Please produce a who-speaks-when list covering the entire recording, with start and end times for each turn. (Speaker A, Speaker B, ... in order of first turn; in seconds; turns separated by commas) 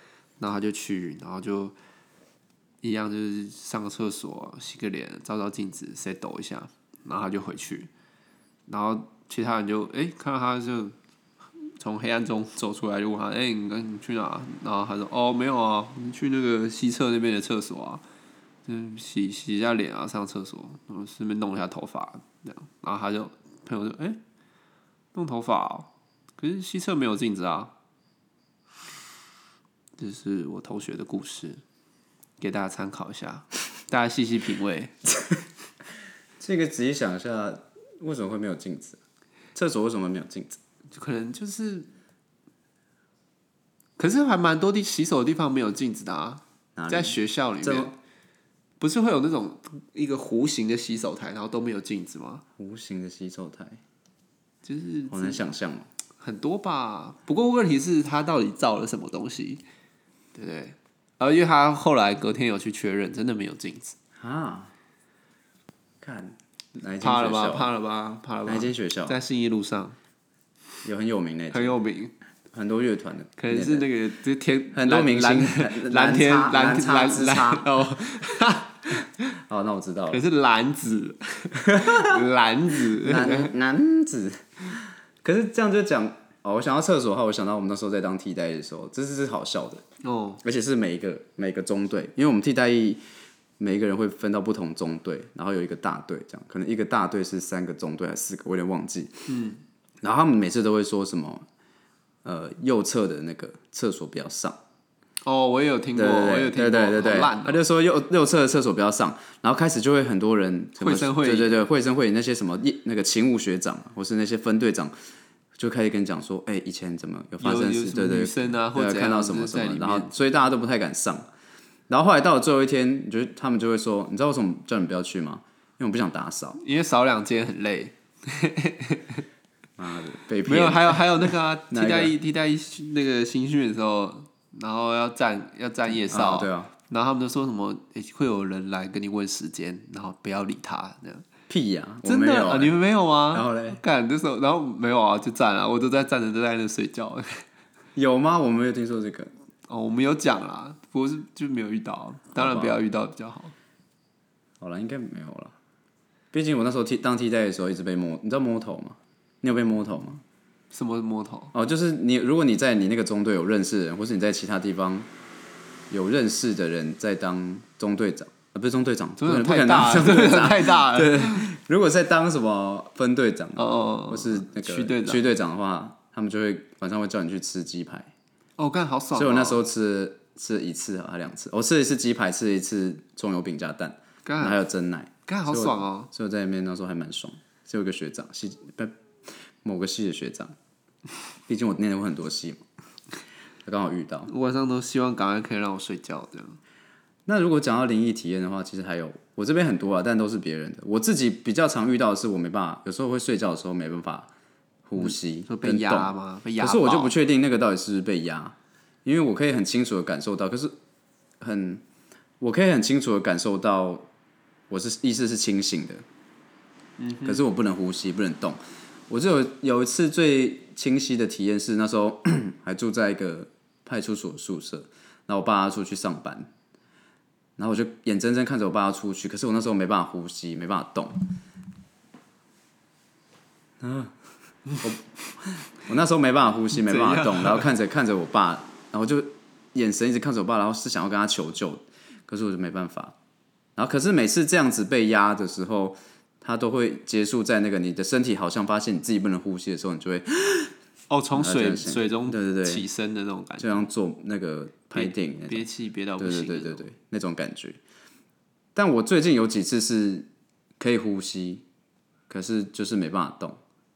Speaker A: 0.4-1.8, Speaker A: 2.8-7.9, Speaker A: 8.7-10.9, Speaker A: 11.8-18.0, Speaker A: 18.7-24.2, Speaker A: 25.1-27.7, Speaker A: 30.0-31.6, Speaker A: 32.4-34.9, Speaker B: 36.4-39.0, Speaker B: 39.5-40.6, Speaker A: 40.9-41.9, Speaker A: 44.0-47.9, Speaker B: 46.8-48.0, Speaker A: 48.8-52.4, Speaker B: 52.6-53.8, Speaker A: 54.6-55.4, Speaker B: 55.1-55.9, Speaker A: 56.2-59.6, Speaker A: 60.4-64.0, Speaker B: 64.2-64.7, Speaker B: 66.0-67.7, Speaker A: 67.0-70.0, Speaker B: 68.5-69.2, Speaker B: 70.8-71.8, Speaker A: 71.5-72.1, Speaker B: 72.5-73.9, Speaker A: 73.4-79.1, Speaker B: 74.7-77.7, Speaker B: 79.5-80.2, Speaker A: 80.1-83.5, Speaker B: 81.7-82.2, Speaker B: 83.0-89.8, Speaker A: 90.0-90.4, Speaker B: 90.4-93.0, Speaker B: 93.6-99.3, Speaker A: 99.3-99.6, Speaker B: 100.0-101.5, Speaker B: 102.2-104.6, Speaker A: 105.2-107.6, Speaker B: 106.0-114.9, Speaker A: 110.8-111.6, Speaker B: 115.6-121.3, Speaker A: 117.4-120.2, Speaker B: 121.9-126.6, Speaker A: 126.6-129.2, Speaker B: 129.8-132.1, Speaker A: 130.5-141.3, Speaker B: 136.1-136.7, Speaker B: 141.5-142.8, Speaker A: 142.0-147.4, Speaker B: 143.3-143.8, Speaker B: 147.9-149.3, Speaker A: 149.7-153.5, Speaker B: 152.3-152.8, Speaker B: 154.6-155.5, Speaker B: 156.3-160.2, Speaker A: 160.7-161.5, Speaker B: 161.5-165.1, Speaker B: 165.9-178.1, Speaker A: 169.2-171.5, Speaker A: 173.6-175.2, Speaker A: 178.6-179.7, Speaker B: 179.1-189.0, Speaker A: 184.2-184.6, Speaker A: 185.3-186.1, Speaker B: 189.6-190.6, Speaker B: 191.5-192.6, Speaker B: 193.7-194.3, Speaker A: 194.3-196.6, Speaker B: 197.3-204.3, Speaker B: 204.9-210.7, Speaker A: 205.0-207.2, Speaker B: 211.4-211.8, Speaker B: 212.4-214.1, Speaker B: 214.7-216.0, Speaker A: 217.0-217.4, Speaker B: 217.2-226.5, Speaker B: 227.6-231.2, Speaker B: 233.8-234.1, Speaker B: 234.8-243.2, Speaker A: 236.7-237.7, Speaker B: 243.8-250.7, Speaker A: 251.1-253.9, Speaker B: 251.3-252.8, Speaker B: 253.6-255.7, Speaker A: 254.9-256.9, Speaker B: 256.2-257.8, Speaker B: 258.8-260.3, Speaker B: 260.8-261.6, Speaker B: 262.3-263.6